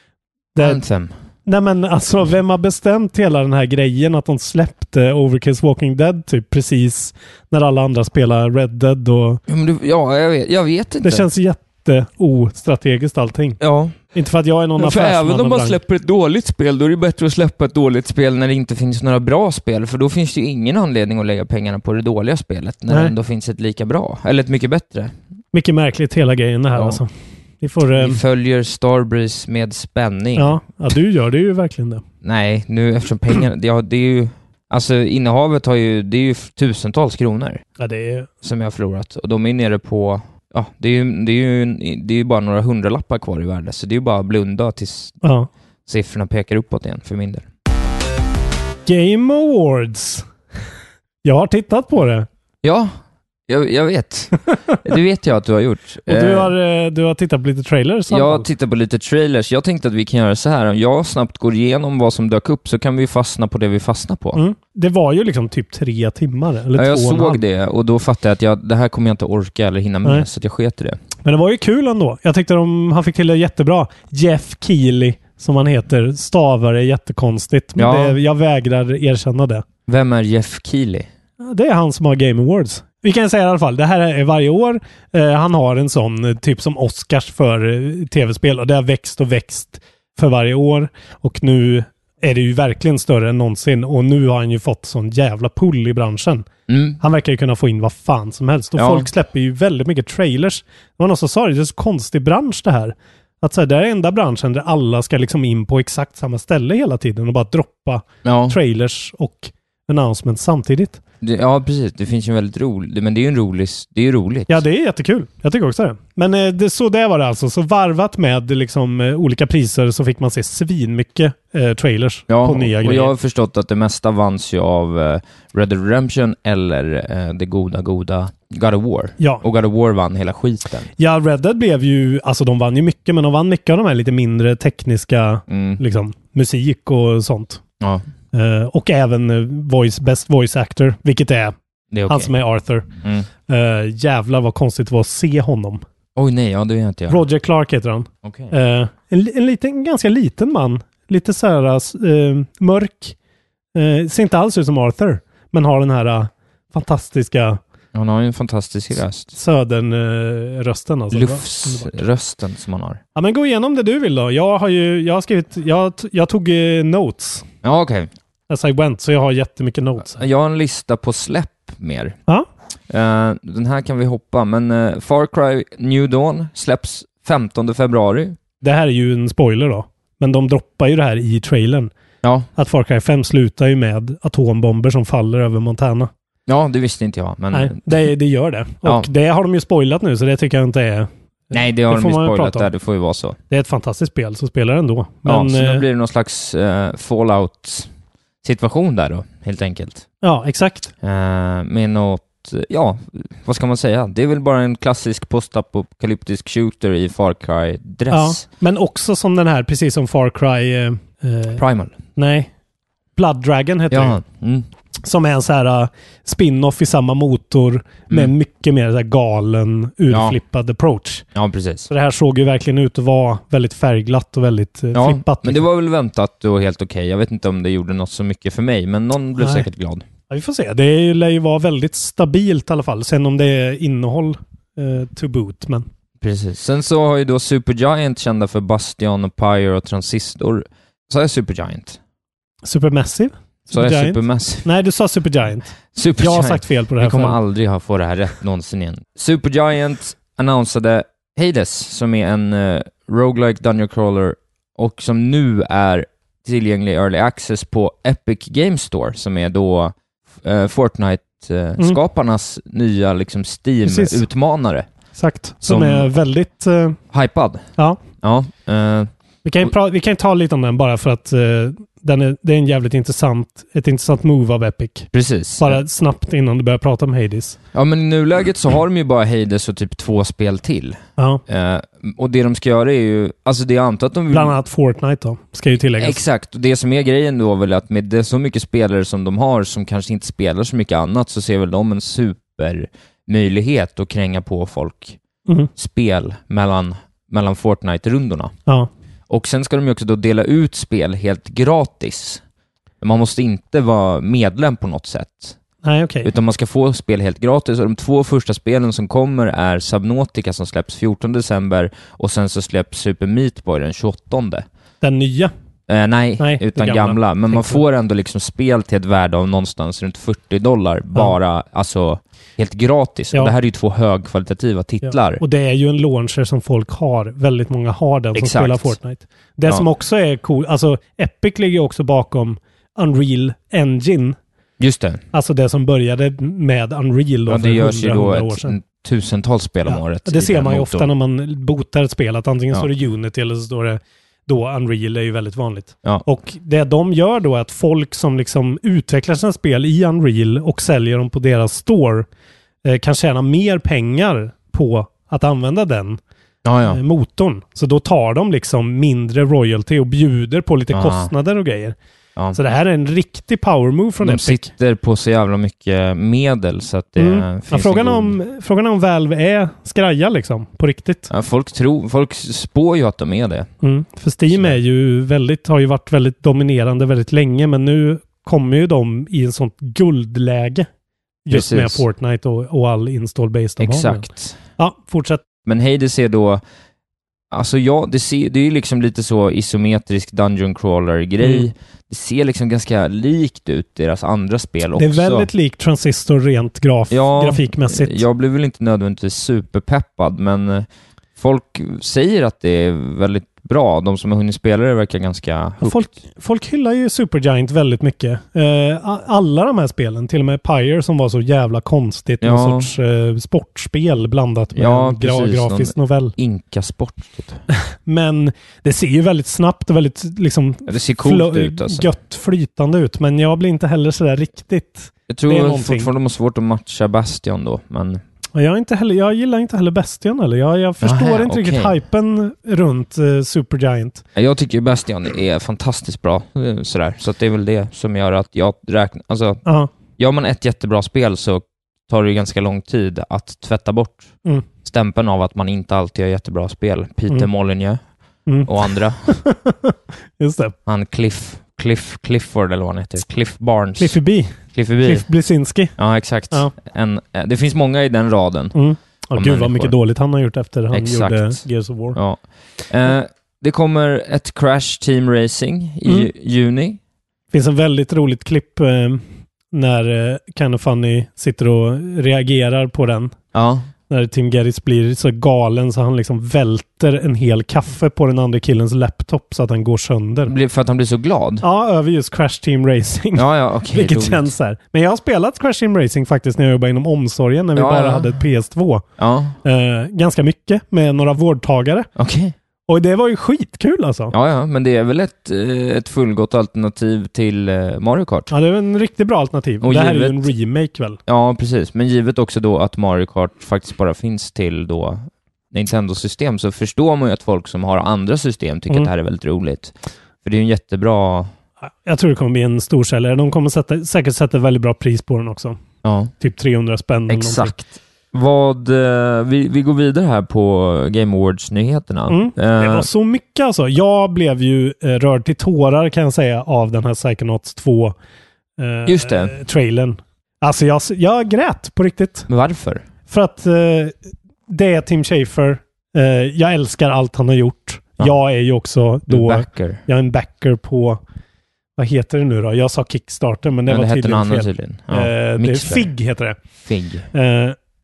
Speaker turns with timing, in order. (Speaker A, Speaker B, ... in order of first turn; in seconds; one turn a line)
Speaker A: 0.6-0.8
Speaker B: 0.6-1.1
Speaker A: 1.5-9.4
Speaker B: 9.5-11.3
Speaker A: 11.0-13.6
Speaker B: 13.6-14.0
Speaker A: 14.1-15.8
Speaker B: 14.8-25.1
Speaker A: 22.9-23.1
Speaker A: 25.5-28.2
Speaker B: 26.8-27.0
Speaker B: 27.9-30.6
Speaker A: 30.4-32.0
Speaker B: 32.2-37.6
Speaker A: 37.8-38.3
Speaker B: 38.4-45.2
Speaker A: 45.2-45.5
Speaker B: 45.9-47.5
Speaker A: 48.9-50.2
Speaker A: 51.2-52.3
Speaker B: 52.6-52.9
Speaker B: 53.5-56.5
Speaker A: 56.1-58.5
Speaker B: 58.1-64.4
Speaker A: 64.3-67.4
Speaker B: 66.7-71.0
Speaker A: 71.2-79.6
Speaker B: 77.8-78.2
Speaker B: 79.9-81.1
Speaker A: 81.4-96.5
Speaker B: 96.7-97.0
Speaker A: 97.0-111.0
Speaker B: 98.8-99.1
Speaker B: 108.2-108.6
Speaker B: 111.2-114.6
Speaker A: 114.5-123.1
Speaker B: 122.3-130.9
Speaker A: 131.0-137.6
Speaker B: 135.5-135.8
Speaker B: 137.8-138.1
Speaker A: 138.3-141.5
Speaker B: 141.9-142.3
Speaker A: 142.1-142.9
Speaker B: 143.0-143.3
Speaker A: 143.5-145.8
Speaker B: 146.2-147.2
Speaker A: 147.1-153.2
Speaker B: 148.2-148.5
Speaker A: 153.8-157.6
Speaker B: 157.9-159.3
Speaker A: 159.3-162.0
Speaker B: 161.1-163.0
Speaker A: 163.2-167.5
Speaker B: 167.6-168.1
Speaker A: 168.5-170.2
Speaker B: 170.2-172.2
Speaker B: 172.9-178.4
Speaker A: 178.6-181.9
Speaker B: 182.2-182.5
Speaker A: 182.6-186.1
Speaker B: 186.5-188.1
Speaker A: 187.5-192.7
Speaker B: 188.8-189.1
Speaker B: 191.5-193.4
Speaker A: 193.5-195.8
Speaker B: 195.2-197.9
Speaker B: 198.4-200.1
Speaker A: 200.2-200.9
Speaker B: 201.0-208.4
Speaker A: 208.1-211.6
Speaker B: 211.6-212.0
Speaker A: 212.2-212.5
Speaker A: 213.2-214.2
Speaker B: 213.9-214.7
Speaker A: 215.0-221.2
Speaker B: 220.1-220.4
Speaker B: 221.3-221.9
Speaker A: 221.9-225.6
Speaker B: 224.9-230.1
Speaker A: 229.4-229.7
Speaker A: 230.3-235.9
Speaker B: 236.2-242.0
Speaker A: 242.6-247.4
Speaker B: 243.7-244.7
Speaker B: 245.9-264.9
Speaker A: 263.9-264.2
Speaker A: 265.2-267.0
Speaker B: 265.6-266.1
Speaker B: 267.1-267.7
Speaker B: 268.2-269.1
Speaker A: 269.4-277.6
Speaker B: 275.1-275.8
Speaker B: 277.7-284.6
Speaker A: 284.3-286.2
Speaker B: 286.0-295.2
Speaker B: 295.8-298.5
Speaker B: 299.3-302.4
Speaker B: 303.0-305.6
Speaker A: 305.8-306.3
Speaker B: 306.2-314.6
Speaker A: 315.0-315.5
Speaker B: 315.9-325.4
Speaker A: 316.4-317.8
Speaker A: 325.0-334.4
Speaker B: 328.4-329.0
Speaker B: 334.8-335.2
Speaker A: 335.3-338.8
Speaker B: 337.5-341.1
Speaker A: 339.9-352.2
Speaker A: 352.9-356.2
Speaker B: 356.6-357.0
Speaker A: 356.9-362.0
Speaker B: 360.9-361.3
Speaker A: 362.5-364.6
Speaker B: 364.2-368.4
Speaker A: 367.2-371.3
Speaker B: 371.3-373.7
Speaker A: 373.8-380.9
Speaker B: 374.5-374.8
Speaker A: 381.5-384.2
Speaker B: 381.5-382.0
Speaker B: 383.8-384.6
Speaker A: 384.8-385.4
Speaker B: 385.7-386.6
Speaker B: 387.5-395.5
Speaker A: 391.4-391.7
Speaker A: 395.0-398.2
Speaker B: 397.1-406.0
Speaker A: 405.8-416.4
Speaker B: 412.4-412.9
Speaker B: 414.8-417.6
Speaker A: 418.1-426.1
Speaker B: 420.9-422.1
Speaker B: 425.3-428.2
Speaker A: 428.6-434.2
Speaker B: 431.0-432.0
Speaker B: 434.4-439.6
Speaker B: 440.2-444.3
Speaker B: 444.8-448.0
Speaker B: 448.7-449.3
Speaker A: 449.2-450.8
Speaker B: 450.9-454.2
Speaker A: 454.0-455.9
Speaker B: 454.7-455.2
Speaker B: 456.0-458.8
Speaker A: 458.7-462.2
Speaker B: 459.3-459.9
Speaker B: 460.9-461.6
Speaker B: 462.1-467.0
Speaker A: 467.5-473.4
Speaker B: 473.5-473.9
Speaker A: 474.1-480.5
Speaker B: 480.5-481.6
Speaker A: 481.6-489.0
Speaker B: 483.3-484.5
Speaker B: 487.8-488.4
Speaker B: 489.2-489.6
Speaker A: 489.6-492.1
Speaker B: 492.2-492.5
Speaker A: 492.9-494.3
Speaker B: 494.3-498.5
Speaker A: 498.5-501.2
Speaker B: 499.8-500.5
Speaker B: 501.3-511.5
Speaker A: 512.0-515.8
Speaker B: 516.0-516.3
Speaker A: 516.4-517.7
Speaker B: 517.3-523.1
Speaker A: 522.3-528.1
Speaker A: 528.8-532.5
Speaker B: 529.0-529.5
Speaker B: 532.5-533.0
Speaker A: 533.3-534.1
Speaker A: 534.7-541.2
Speaker B: 539.3-540.0
Speaker A: 542.0-546.5
Speaker B: 543.9-546.1
Speaker B: 546.9-547.3
Speaker A: 547.3-547.8